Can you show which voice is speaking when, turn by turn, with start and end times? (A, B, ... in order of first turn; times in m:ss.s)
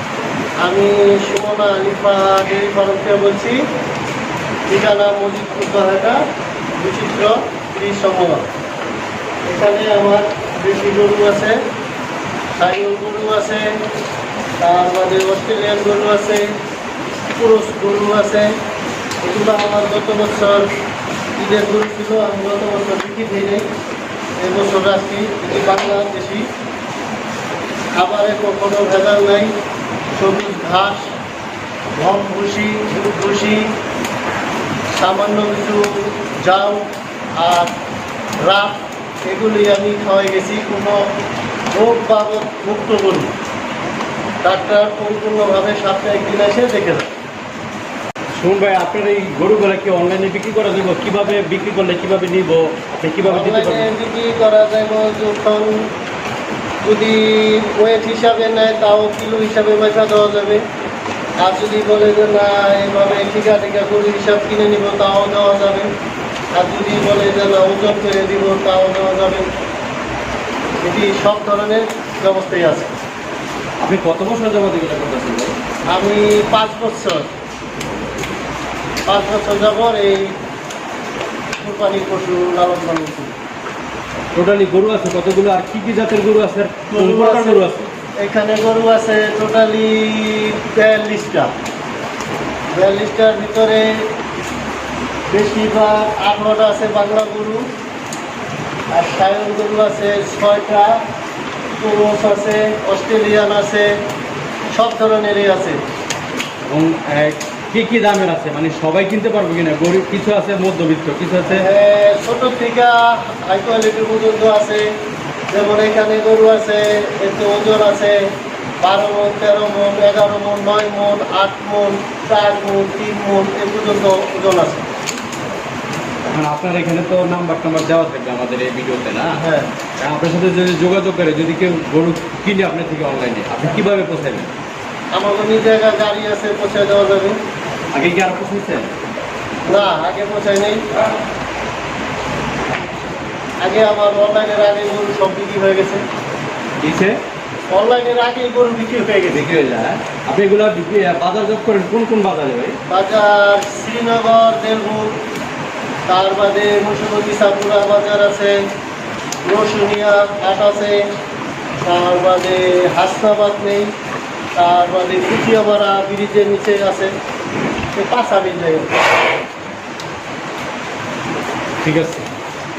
0:00.6-0:03.6 A
0:04.7-0:06.2 A
0:06.8-0:08.5 A
0:09.4-0:11.6 A
0:12.6-0:13.7 A
0:14.6-0:16.5 A
0:17.3-0:18.5 A
0:19.2-0:20.7 A
0:21.4-0:23.6 A
0:24.4-0:26.5 A
0:28.0-0:29.5 A
0:30.1-0:31.1 A
0:32.0-0:33.7 A
0:34.9-0:37.7 A
0:38.4-0:41.0 A
0:41.7-0:43.3 A
0:44.4-0:47.1 A
0:48.4-0:53.9 B
0:53.2-0:55.8 A
0:56.8-1:00.6 A
1:01.4-1:05.9 A
1:06.5-1:09.5 A
1:10.8-1:12.9 A
1:13.8-1:15.5 B
1:15.9-1:17.3 A
1:19.1-1:20.3 A
1:21.6-1:23.3 A
1:24.3-1:27.9 B
1:26.9-1:27.6 A
1:28.2-1:31.5 A
1:32.7-1:34.0 A
1:35.3-1:37.6 A
1:38.9-1:41.0 A
1:41.8-1:43.9 A
1:44.7-1:45.8 A
1:46.7-1:51.7 B
1:51.4-1:54.8 A
1:55.5-1:58.2 A
1:58.8-2:04.9 A
2:06.2-2:09.4 B
2:09.3-2:09.7 A
2:10.0-2:14.5 B
2:15.1-2:17.4 A
2:17.9-2:18.9 B
2:19.7-2:20.8 A
2:23.6-2:26.0 A
2:26.8-2:27.2 B
2:27.7-2:29.5 A
2:29.3-2:32.8 B
2:32.9-2:35.2 A
2:36.1-2:38.6 A
2:39.4-2:41.0 A
2:41.8-2:43.9 A
2:44.5-2:47.1 A
2:47.9-2:48.9 A
2:51.8-2:52.3 B